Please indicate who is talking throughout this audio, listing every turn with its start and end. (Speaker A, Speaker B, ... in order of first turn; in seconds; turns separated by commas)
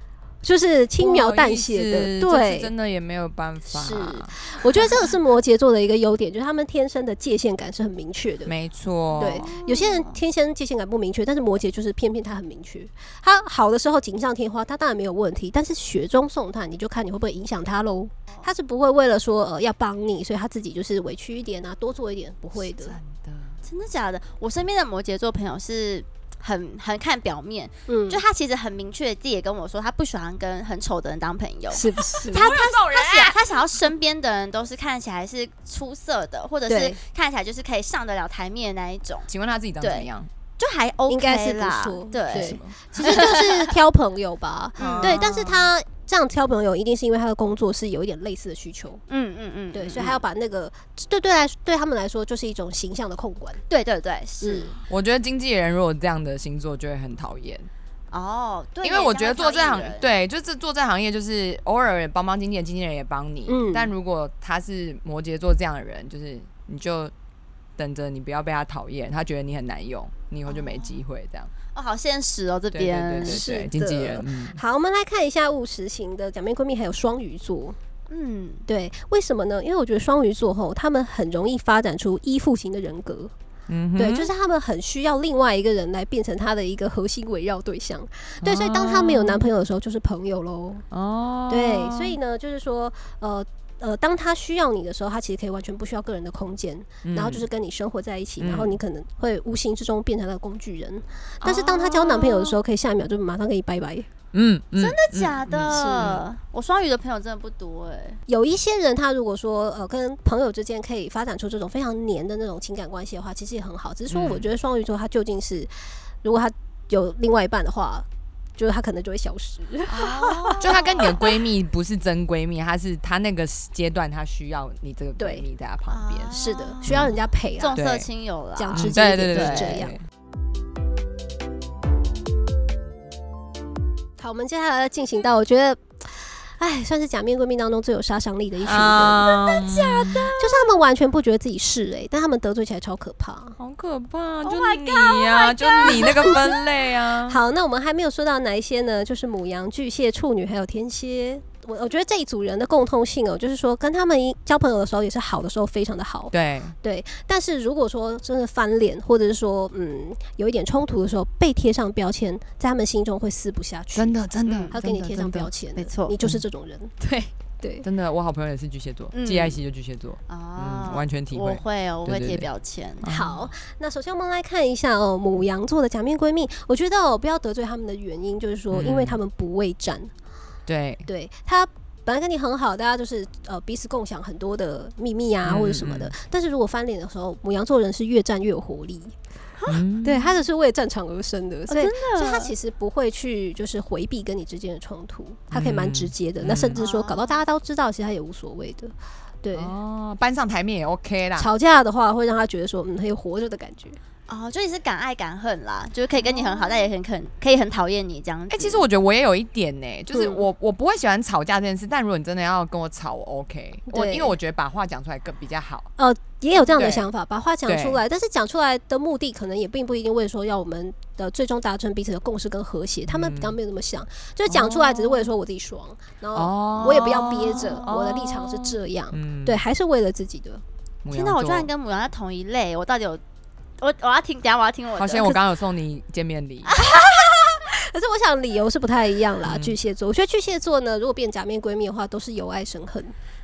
Speaker A: 0.4-2.7, Speaker B: 1.0-4.4, Speaker A: 3.7-8.5, Speaker B: 8.5-9.5, Speaker C: 9.1-10.2, Speaker A: 9.2-23.0, Speaker B: 22.6-23.6, Speaker C: 23.6-39.3, Speaker A: 27.9-28.2, Speaker A: 31.7-32.5, Speaker B: 32.0-33.4, Speaker A: 36.7-37.0, Speaker B: 39.3-40.3, Speaker C: 39.8-40.1, Speaker C: 40.6-43.7, Speaker A: 41.1-49.0, Speaker B: 42.3-42.8, Speaker C: 44.8-45.2, Speaker B: 44.8-45.7, Speaker C: 49.1-50.2, Speaker A: 49.7-53.6, Speaker C: 53.7-54.8, Speaker A: 54.4-54.7, Speaker B: 54.9-57.7, Speaker C: 58.1-60.1, Speaker B: 58.8-67.1, Speaker A: 63.5-63.9, Speaker B: 67.8-71.5, Speaker C: 70.5-71.0, Speaker C: 71.7-73.5, Speaker B: 72.7-74.6, Speaker A: 73.2-77.8, Speaker C: 78.1-78.7, Speaker A: 78.7-83.3, Speaker B: 83.7-84.3, Speaker A: 84.0-90.8, Speaker B: 88.4-89.5, Speaker B: 90.9-92.2, Speaker A: 91.5-104.1, Speaker B: 97.0-97.5, Speaker B: 98.4-98.8, Speaker C: 101.5-102.5, Speaker B: 104.3-106.2, Speaker C: 104.8-108.2, Speaker A: 105.7-106.2, Speaker A: 108.3-115.7, Speaker B: 114.1-114.5, Speaker A: 116.2-121.3, Speaker C: 119.9-121.2, Speaker B: 120.6-126.3, Speaker A: 125.2-125.5, Speaker C: 125.9-126.9, Speaker A: 126.3-127.8, Speaker B: 126.8-127.1, Speaker C: 127.6-129.8, Speaker B: 127.7-128.1, Speaker A: 128.6-129.9, Speaker B: 128.7-130.0, Speaker A: 134.2-139.3, Speaker B: 138.6-140.3, Speaker C: 139.2-140.7, Speaker A: 140.3-143.6, Speaker B: 143.6-147.4, Speaker C: 144.4-146.6, Speaker A: 145.8-146.6, Speaker A: 147.3-164.2, Speaker B: 156.3-156.8, Speaker B: 163.9-165.5, Speaker C: 164.4-164.7, Speaker A: 164.7-166.9, Speaker C: 165.8-166.2, Speaker C: 167.0-167.3, Speaker A: 167.6-167.9, Speaker B: 167.8-172.5, Speaker C: 169.1-169.6, Speaker C: 170.3-173.0, Speaker B: 173.0-173.5, Speaker A: 173.1-180.1, Speaker B: 178.7-179.2, Speaker B: 180.7-181.1, Speaker A: 181.1-189.2, Speaker B: 185.4-186.1, Speaker B: 189.7-190.3, Speaker A: 190.0-199.7, Speaker C: 191.7-192.5, Speaker B: 195.5-196.8, Speaker C: 196.8-197.4, Speaker B: 199.5-201.5, Speaker A: 201.4-204.0, Speaker C: 204.3-208.8, Speaker A: 206.3-206.9, Speaker B: 208.5-215.9, Speaker A: 210.1-210.5, Speaker A: 213.9-214.4, Speaker A: 216.0-230.6, Speaker B: 216.8-217.1, Speaker B: 217.7-218.0, Speaker B: 223.1-223.6, Speaker B: 224.5-225.3, Speaker B: 226.3-229.6, Speaker B: 231.0-231.7, Speaker C: 231.1-233.2, Speaker C: 233.8-235.4, Speaker B: 235.0-236.8, Speaker C: 236.7-237.0, Speaker A: 236.8-243.2, Speaker B: 239.4-239.8